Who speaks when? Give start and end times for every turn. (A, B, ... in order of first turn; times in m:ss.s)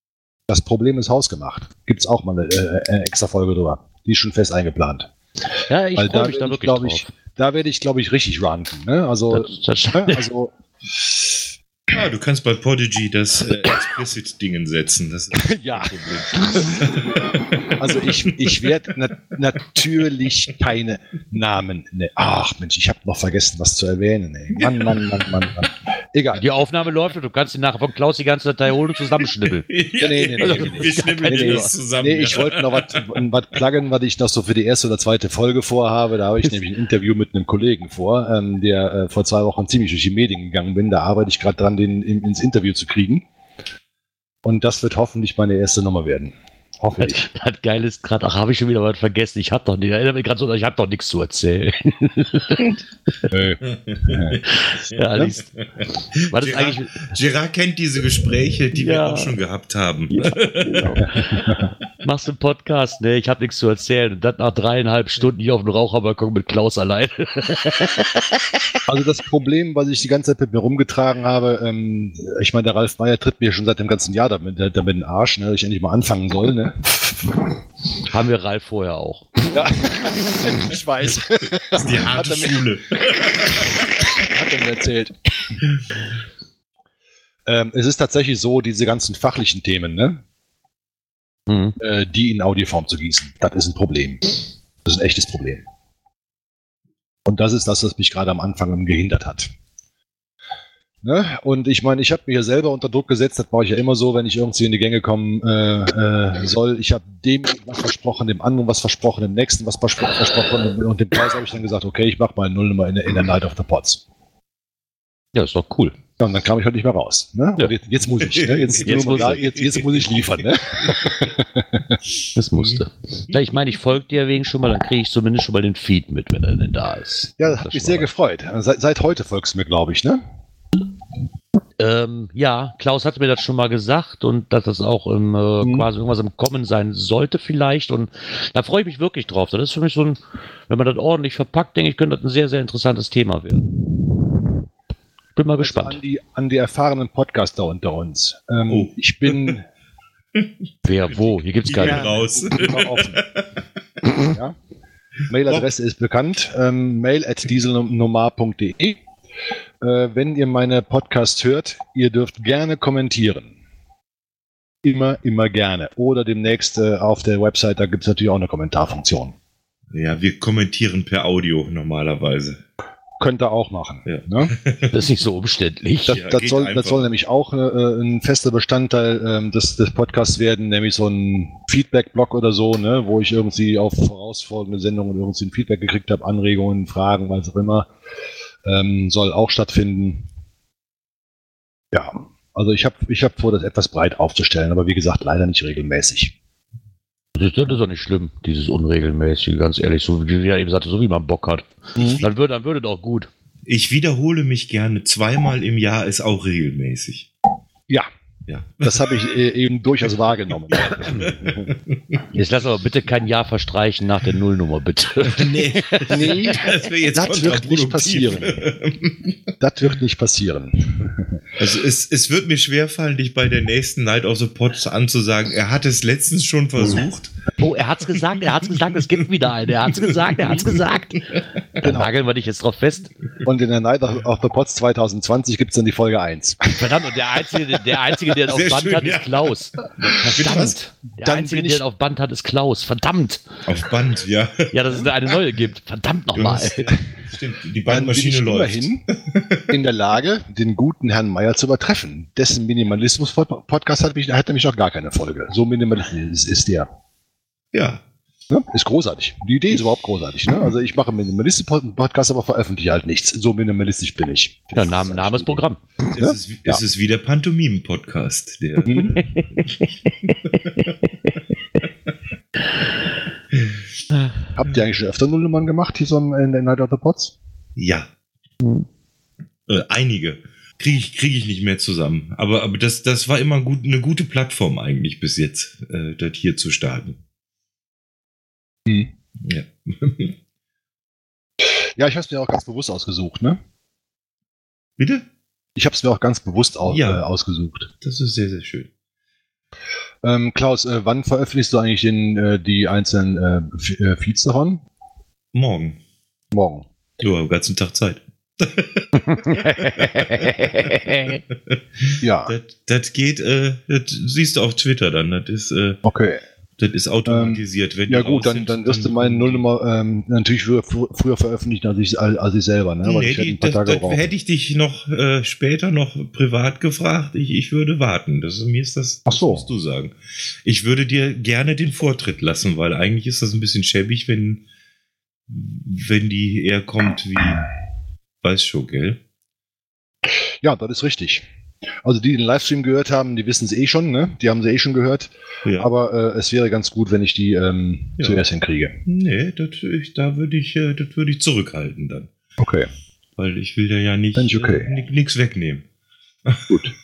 0:00.5-0:05.1 A
0:05.7-0:07.1 B
0:06.0-0:11.5 A
0:09.3-0:10.3 B
0:11.9-0:17.8 C
0:15.3-0:26.4 A
0:24.6-0:25.5 C
0:26.4-0:29.7 B
0:29.7-0:33.2 C
0:30.0-0:43.3 A
0:30.4-0:31.7 B
0:44.4-0:47.3 A
0:47.0-0:52.8 B
0:53.3-0:54.4 A
0:53.9-0:54.4 C
0:54.4-0:55.4 B
0:56.2-1:01.0 C
0:56.3-0:57.0 B
0:58.8-0:59.3 B
1:00.1-1:08.2 B
1:01.0-1:01.7 A
1:08.9-1:17.2 A
1:18.1-1:19.5 B
1:19.5-1:22.6 A
1:21.7-1:23.7 C
1:23.4-1:25.1 A
1:27.5-1:30.2 A
1:31.5-1:31.8 B
1:31.8-1:34.3 A
1:34.8-1:35.6 A
1:37.2-1:39.5 A
1:41.0-1:54.0 A
1:55.4-1:56.0 B
1:56.2-2:02.0 A
1:58.3-2:00.3 C
1:58.8-1:59.4 B
2:02.4-2:08.1 B
2:07.4-2:10.2 A
2:11.8-2:23.7 B
2:15.6-2:15.9 A
2:25.4-2:26.0 B
2:25.6-2:29.6 A
2:28.7-2:29.6 C
2:30.8-2:32.1 B
2:31.1-2:33.4 C
2:31.8-2:33.2 A
2:34.3-2:34.6 A
2:35.3-2:39.0 A
2:39.8-2:43.6 A
2:44.8-2:49.4 A
2:49.9-2:52.6 C
2:53.2-2:54.5 A
2:54.1-2:54.9 C
2:54.9-2:56.2 B
2:56.1-3:07.9 A
2:56.1-2:57.1 C
3:08.6-3:10.3 A
3:11.9-3:16.4 A
3:17.4-3:21.7 B
3:22.0-3:22.2 A
3:22.0-3:22.3 C
3:22.2-3:23.3 B
3:23.7-3:27.3 C
3:28.5-3:29.2 C
3:28.8-3:31.7 A
3:30.7-3:32.2 C
3:32.3-3:36.4 B
3:35.2-3:39.3 C
3:36.1-3:38.6 A
3:39.6-3:41.4 A
3:41.6-3:47.3 C
3:47.6-3:51.3 B
3:50.0-3:50.8 C
3:51.8-3:53.1 B
3:51.8-3:52.1 A
3:53.4-3:56.8 A
3:56.7-3:59.7 B
3:58.5-4:00.8 C
4:00.2-4:03.4 B
4:01.2-4:01.8 A
4:03.7-4:05.1 C
4:04.7-4:07.0 B
4:06.4-4:09.7 C
4:07.9-4:09.0 A
4:09.7-4:16.9 A
4:17.7-4:18.0 C
4:18.5-4:25.6 A
4:24.8-4:25.8 B
4:26.1-4:30.9 C
4:26.2-4:26.8 A
4:28.9-4:29.2 A
4:34.6-4:37.4 A
4:37.8-4:38.1 C
4:39.7-4:47.2 C
4:48.9-4:49.1 A
4:49.4-4:50.4 C
4:51.6-4:53.6 A
4:55.0-4:55.2 C
4:55.8-4:57.9 A
4:56.9-4:57.2 C
4:58.0-4:58.9 C
5:00.2-5:04.8 A
5:05.5-5:06.0 C
5:06.5-5:06.9 A
5:07.2-5:10.9 C
5:09.2-5:11.4 B
5:12.2-5:12.5 A
5:12.5-5:16.0 C
5:16.0-5:16.4 A
5:16.8-5:19.6 C
5:17.3-5:24.2 A
5:23.0-5:30.1 C
5:29.3-5:29.6 A
5:30.6-5:34.6 C
5:35.5-5:37.7 C
5:38.4-5:39.2 C
5:40.3-5:41.5 A
5:42.0-5:49.0 A
5:45.6-5:45.9 C
5:49.1-5:52.3 C
5:52.6-5:52.9 A
5:53.4-5:55.8 C
5:54.4-5:54.9 A
5:56.5-5:56.8 C
5:56.7-5:56.9 A